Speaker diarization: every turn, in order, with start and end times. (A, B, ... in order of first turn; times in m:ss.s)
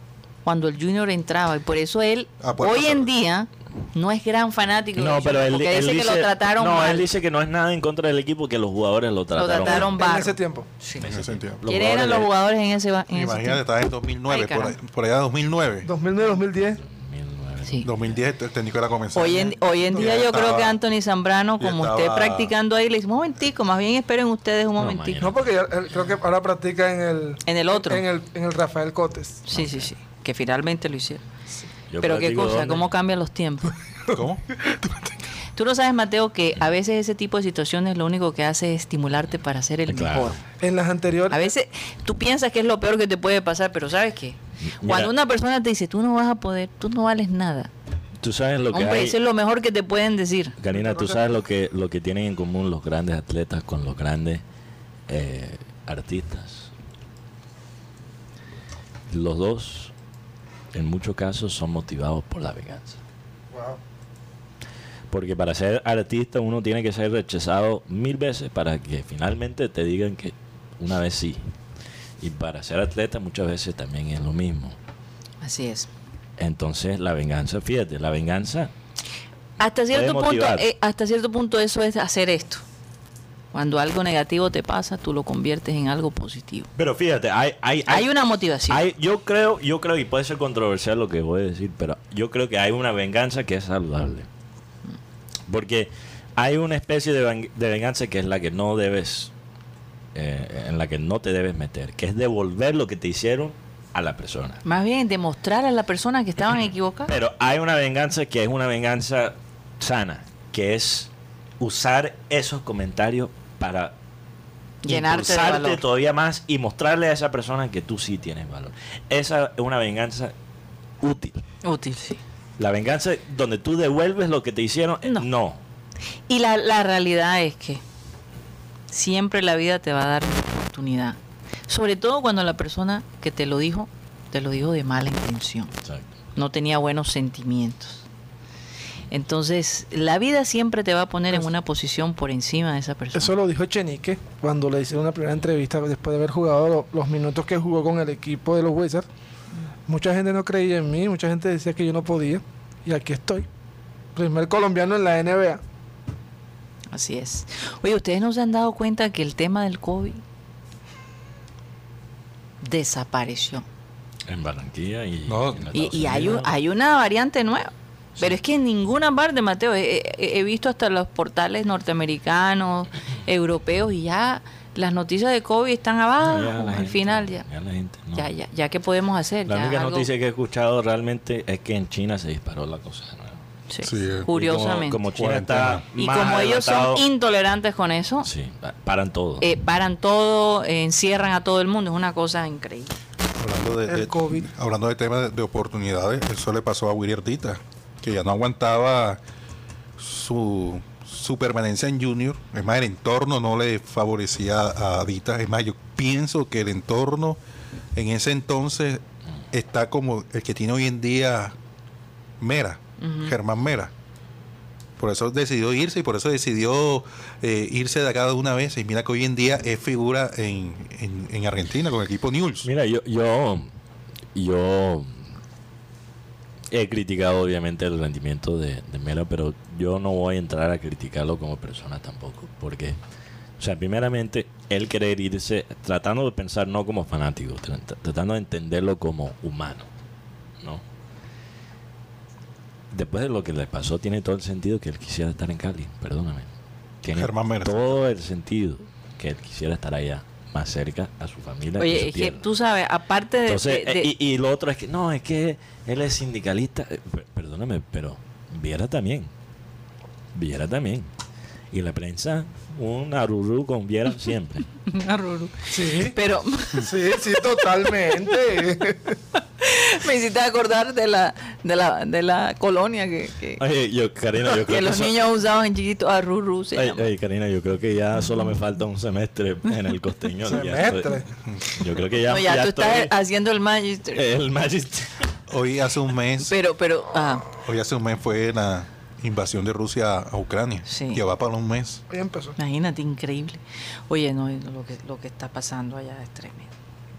0:00.4-0:07.0 A
0:02.4-0:03.1 B
0:05.0-0:10.0 C
0:09.3-0:11.0 A
0:09.6-0:10.7 D
0:11.0-0:12.3 C
0:11.0-0:11.6 B
0:11.6-0:13.6 A
0:13.1-0:15.9 B
0:14.2-0:14.7 A
0:15.8-0:16.8 D
0:16.8-0:18.2 C
0:17.8-0:20.8 B
0:19.1-0:25.2 A
0:19.9-0:20.3 D
0:21.6-0:22.5 B
0:24.8-0:25.5 C
0:25.2-0:29.4 D
0:27.4-0:28.0 A
0:29.4-0:31.2 A
0:29.5-0:29.9 C
0:31.9-0:32.9 C
0:32.0-0:33.7 A
0:34.1-0:35.0 D
0:34.1-0:34.4 B
0:35.6-0:40.4 A
0:39.9-0:40.3 C
0:40.6-0:41.5 D
0:41.3-0:47.7 A
0:44.6-0:45.1 C
0:48.2-0:49.2 C
0:48.7-0:50.5 A
0:50.6-0:54.4 C
0:50.7-0:51.2 D
0:55.1-0:56.7 C
0:59.1-0:59.9 C
1:00.7-1:03.0 C
1:03.5-1:03.8 D
1:05.1-1:11.4 C
1:12.2-1:14.8 C
1:15.4-1:15.9 A
1:16.4-1:18.7 C
1:19.6-1:22.6 A
1:19.9-1:20.6 C
1:23.5-1:26.7 A
1:26.8-1:28.1 C
1:27.9-1:28.8 A
1:28.7-1:34.3 C
1:35.5-1:39.3 C
1:40.1-1:44.6 C
1:44.6-1:47.1 A
1:47.1-1:53.9 C
1:54.8-1:55.8 A
1:54.8-2:00.3 C
2:01.0-2:01.4 C
2:01.6-2:02.2 A
2:02.6-2:05.6 C
2:06.3-2:07.8 A
2:08.9-2:15.7 A
2:16.4-2:18.0 A
2:19.1-2:23.3 A
2:23.1-2:29.1 D
2:29.9-2:33.5 D
2:34.2-2:35.6 D
2:36.9-2:40.2 A
2:42.6-2:43.6 A
2:44.3-2:46.5 C
2:45.3-2:45.7 B
2:45.7-2:57.4 A
2:56.2-2:58.3 C
2:58.1-3:00.1 A
2:59.5-3:03.4 C
3:03.7-3:05.0 A
3:03.8-3:04.3 B
3:04.3-3:07.0 C
3:05.1-3:05.8 B
3:05.9-3:08.3 A
3:08.2-3:09.5 C
3:09.4-3:12.9 A
3:13.4-3:19.2 B
3:13.9-3:14.5 D
3:20.0-3:27.4 B
3:27.9-3:31.5 B
3:32.4-3:33.9 B
3:33.0-3:33.3 A
3:35.0-3:42.7 B
3:42.6-3:43.7 C
3:44.3-3:45.2 C
3:46.7-3:53.0 C
3:53.6-3:59.9 C
4:02.9-4:06.5 C
4:07.0-4:12.4 C
4:07.1-4:07.8 B
4:11.8-4:14.1 A
4:13.5-4:19.3 C
4:20.3-4:21.1 C
4:21.7-4:24.6 C
4:24.8-4:26.9 A
4:25.7-4:26.2 D
4:26.8-4:29.2 D
4:29.6-4:33.6 A
4:33.6-4:35.2 C
4:34.5-4:37.1 A
4:36.8-4:43.1 C
4:40.4-4:41.3 D
4:42.2-4:44.3 A
4:44.1-4:45.2 C
4:45.5-4:46.5 B
4:46.4-4:47.5 A
4:47.5-4:52.0 B
4:50.9-4:51.2 A
4:52.1-4:52.6 D
4:52.6-4:56.7 A